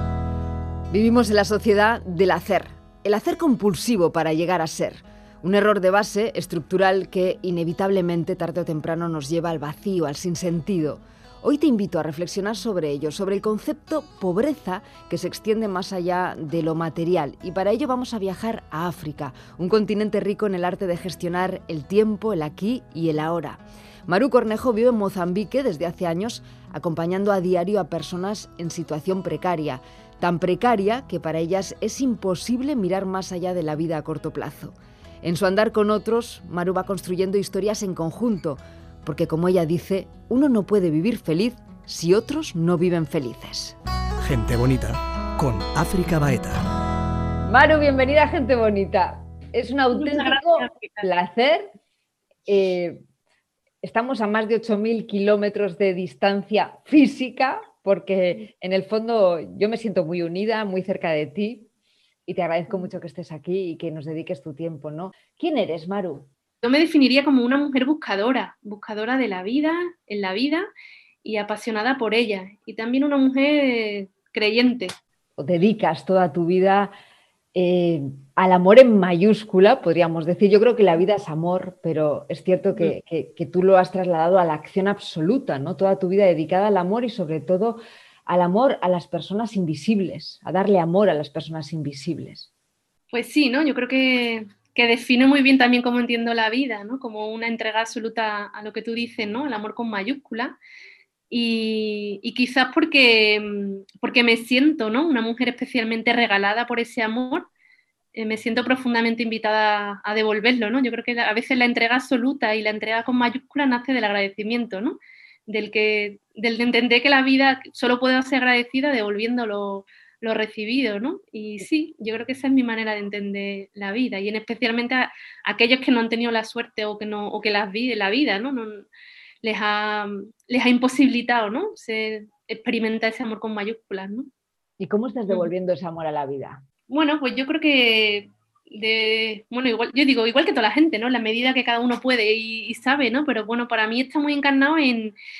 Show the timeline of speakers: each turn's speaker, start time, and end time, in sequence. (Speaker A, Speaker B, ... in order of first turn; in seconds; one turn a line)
Speaker A: 0.9-43.8
Speaker B: 44.2-46.6
Speaker A: 47.4-51.7
Speaker C: 49.9-51.1
Speaker A: 52.5-53.0
Speaker A: 53.8-61.7
Speaker A: 62.2-66.3
Speaker C: 66.6-70.7
Speaker C: 71.2-74.9
Speaker A: 75.4-76.9
Speaker A: 77.5-92.5
Speaker C: 93.1-100.6
Speaker C: 101.3-107.5
Speaker C: 108.1-128.9
Speaker C: 129.4-134.3
Speaker A: 134.8-136.6
Speaker C: 136.9-145.2